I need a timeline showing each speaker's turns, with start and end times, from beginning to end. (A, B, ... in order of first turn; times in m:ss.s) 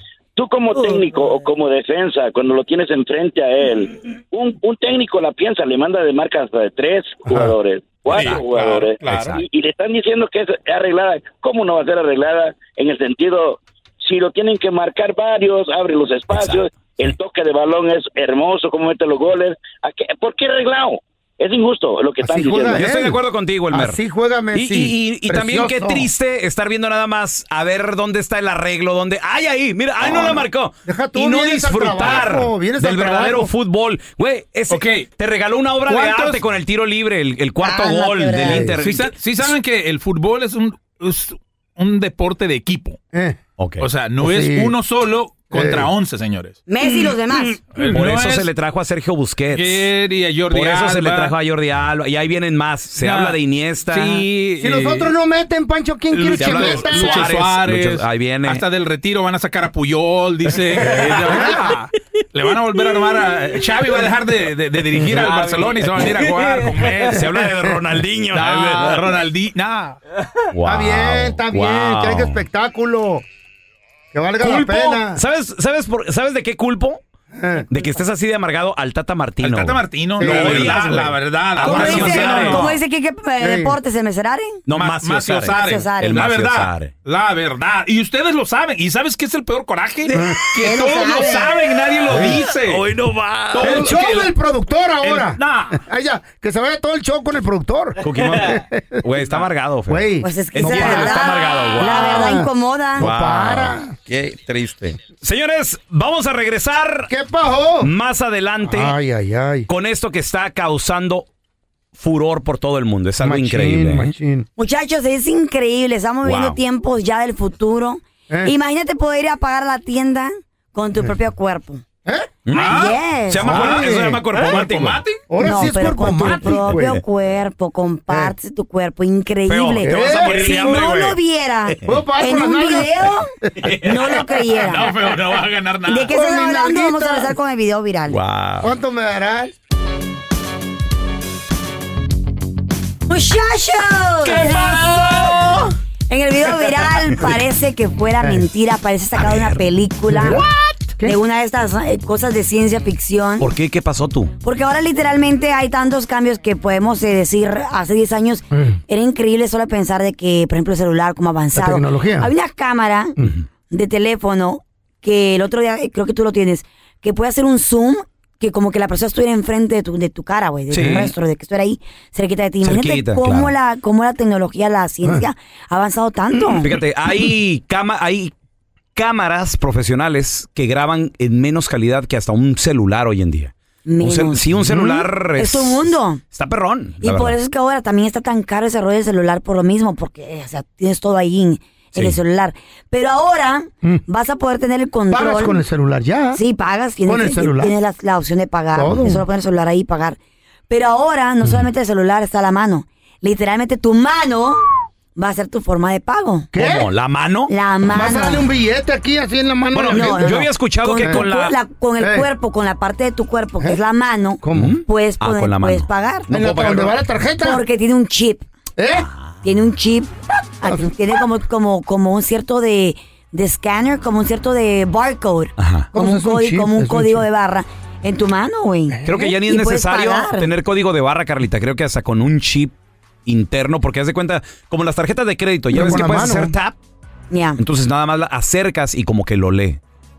0:00.4-0:22.8 A
0:07.3-0:07.5 B
0:08.1-0:09.4 C
0:08.2-0:08.4 D
0:09.0-0:09.4 D
0:16.3-0:16.6 D
0:22.2-0:23.2 B
0:22.8-0:24.0 D
0:23.7-0:26.1 B
0:24.5-0:39.2 D
0:30.0-0:33.5 B
0:34.7-0:35.1 C
0:35.8-0:36.4 C
0:37.6-0:38.7 E
0:38.4-0:38.8 B
0:38.8-0:43.0 C
0:43.6-0:43.9 D
0:43.8-0:46.6 C
0:44.2-0:44.7 B
0:45.5-0:45.9 B
0:46.7-0:47.6 E
0:47.8-0:48.5 C
0:47.8-0:49.9 D
0:49.5-0:51.3 C
0:50.5-0:54.2 D
0:53.0-0:55.1 C
0:54.6-0:57.4 B
0:56.1-1:07.3 C
0:56.4-0:58.6 D
1:05.0-1:09.1 D
1:07.1-1:08.0 B
1:08.3-1:10.0 C
1:10.5-1:12.4 D
1:10.7-1:13.2 B
1:14.1-1:15.2 B
1:14.4-1:17.0 D
1:17.4-1:17.7 B
1:17.7-1:22.8 D
1:19.4-1:22.8 C
1:20.2-1:21.0 B
1:21.6-1:24.6 E
1:23.4-1:23.8 B
1:24.7-1:26.9 D
1:24.7-1:32.9 C
1:25.5-1:26.2 E
1:30.1-1:30.4 B
1:30.6-1:31.5 E
1:32.1-1:34.2 D
1:32.1-1:32.4 B
1:33.5-1:34.3 C
1:33.6-1:39.0 B
1:35.0-1:35.8 D
1:38.0-1:42.3 D
1:39.9-1:41.2 B
1:40.2-1:43.1 E
1:41.8-1:44.0 B
1:43.0-1:47.1 D
1:47.1-1:47.9 B
1:47.8-1:48.9 D
1:48.6-1:49.7 B
1:49.7-1:51.3 D
1:52.0-1:54.1 D
1:53.2-1:54.5 B
1:54.6-2:01.8 E
1:56.2-1:56.6 D
2:02.5-2:05.0 D
2:02.5-2:03.0 C
2:02.5-2:03.7 E
2:03.4-2:04.3 B
2:03.6-2:05.2 C
2:05.3-2:07.0 B
2:05.4-2:13.3 E
2:06.2-2:06.9 D
2:09.5-2:11.2 D
2:09.8-2:10.5 B
2:10.3-2:10.7 C
2:11.8-2:13.6 B
2:13.6-2:14.1 D
2:13.6-2:16.1 C
2:13.8-2:15.0 E
2:15.9-2:18.2 E
2:16.1-2:17.3 B
2:18.1-2:18.7 D
2:18.6-2:19.5 B
2:23.1-2:24.8 E
2:24.4-2:25.2 D
2:24.5-2:25.5 C
2:26.1-2:30.4 E
2:29.2-2:29.6 D
2:30.1-2:30.5 B
2:31.0-2:33.5 E
2:33.4-2:34.3 D
2:34.4-2:43.2 E
2:38.5-2:38.8 B
2:41.5-2:42.3 B
2:43.7-2:56.7 E
2:50.7-2:51.1 D
2:50.8-2:51.1 B
2:52.6-2:53.5 D
2:56.6-2:58.3 D
2:59.0-3:07.4 D
3:03.8-3:06.2 E
3:04.7-3:05.0 B
3:07.0-3:15.6 E
3:15.1-3:16.4 B
3:16.3-3:20.2 E
3:17.1-3:17.7 B
3:18.7-3:19.2 B
3:20.7-3:24.6 E
3:25.2-3:26.5 E
3:26.5-3:26.9 B
3:26.6-3:27.5 D
3:27.5-3:28.4 E
3:27.9-3:30.4 B
3:29.7-3:31.6 D
3:29.9-3:36.3 E
3:32.0-3:32.3 B
3:34.4-3:34.8 B
3:34.5-3:37.0 D
3:36.3-3:37.6 B
3:37.4-3:38.4 E
3:38.8-3:39.1 B
3:39.0-3:39.3 D
3:39.4-3:50.5 E
3:40.6-3:40.9 B
3:45.6-3:45.9 D
3:45.9-3:47.2 B
3:48.9-3:49.3 B
3:49.1-3:52.7 D
3:53.3-3:56.8 D
3:55.7-3:56.6 B
3:57.3-3:57.6 E
3:57.6-3:59.8 D